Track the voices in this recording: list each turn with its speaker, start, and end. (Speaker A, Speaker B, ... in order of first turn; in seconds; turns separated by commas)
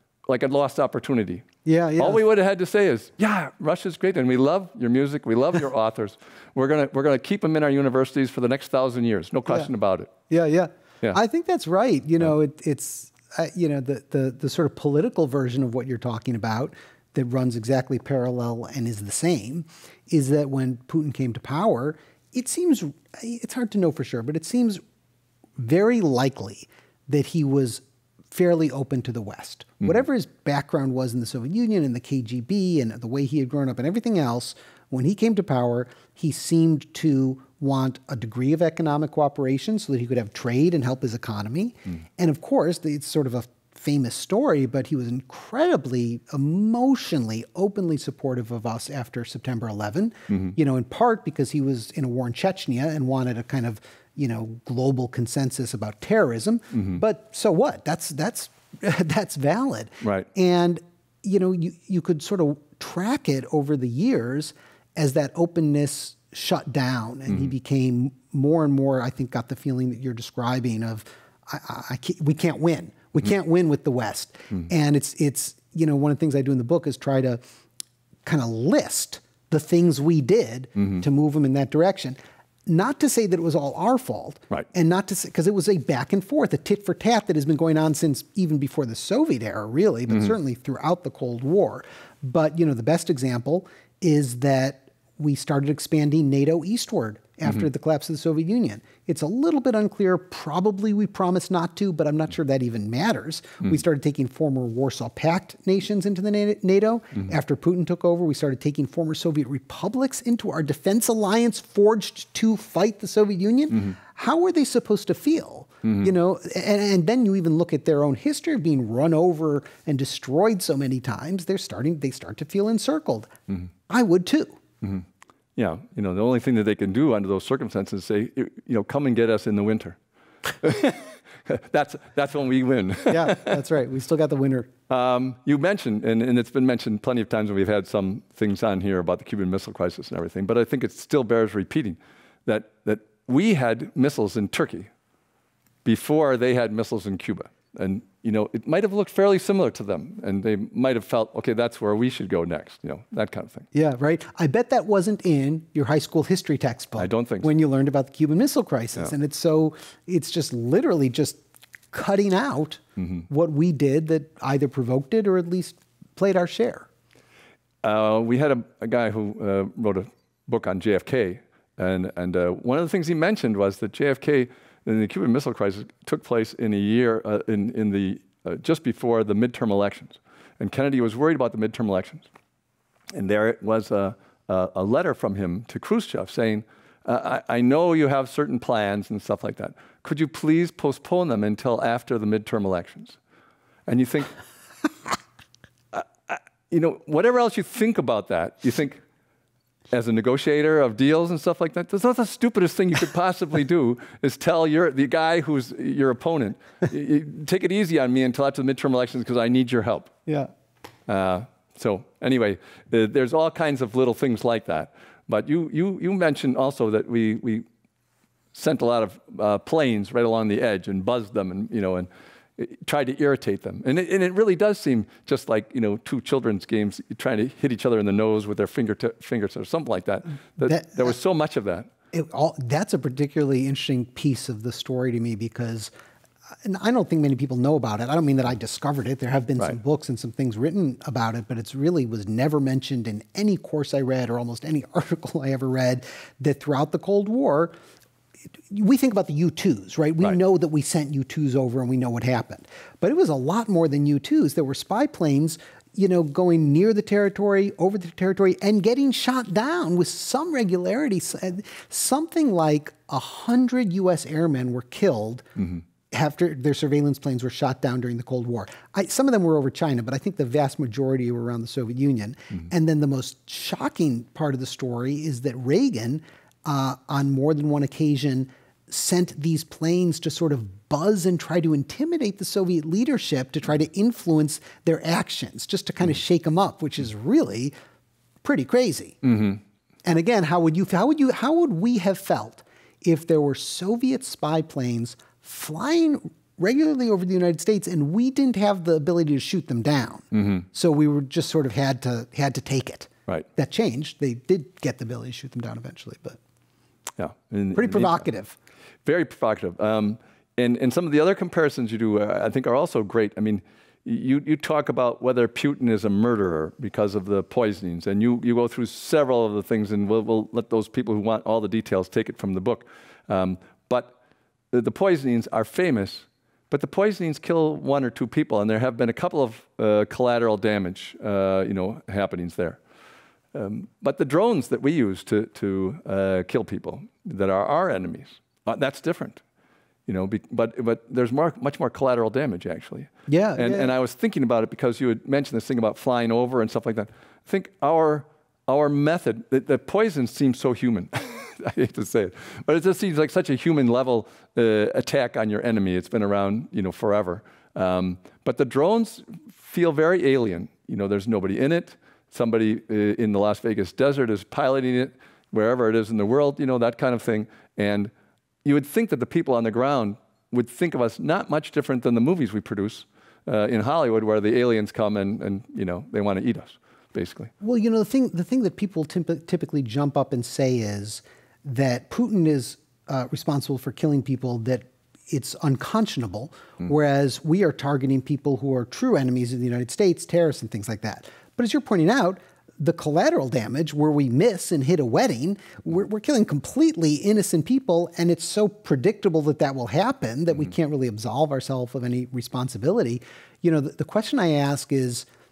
Speaker A: 0.3-1.5, Speaker B: 1.6-2.2, Speaker A: 2.0-10.1, Speaker B: 10.3-24.8, Speaker B: 25.6-77.4, Speaker A: 50.3-50.5, Speaker A: 56.7-57.0, Speaker A: 60.0-60.3, Speaker B: 78.2-82.2, Speaker A: 80.8-81.0, Speaker B: 82.7-123.3, Speaker A: 115.8-116.1, Speaker B: 123.9-124.6, Speaker A: 125.5-130.0, Speaker A: 130.6-133.5, Speaker B: 133.1-134.7, Speaker A: 134.9-144.9, Speaker A: 145.8-153.7, Speaker B: 153.7-161.4, Speaker A: 157.0-157.5, Speaker B: 161.9-166.9, Speaker A: 163.0-163.2, Speaker A: 167.8-182.3, Speaker A: 183.1-193.2, Speaker A: 193.9-194.3, Speaker A: 195.9-199.0, Speaker A: 199.9-210.2, Speaker A: 211.1-217.7, Speaker A: 218.5-231.9, Speaker B: 230.6-231.2, Speaker B: 232.1-235.9, Speaker B: 236.6-247.7, Speaker B: 248.7-265.4, Speaker B: 266.1-287.7, Speaker B: 288.4-289.2, Speaker A: 289.2-289.6, Speaker B: 290.0-306.4, Speaker A: 300.3-300.6, Speaker A: 307.2-308.2, Speaker B: 307.7-308.5, Speaker A: 309.0-324.1, Speaker A: 324.7-332.8, Speaker A: 333.5-339.4, Speaker A: 340.1-368.1, Speaker B: 343.3-343.9, Speaker A: 368.6-377.5, Speaker B: 377.6-405.3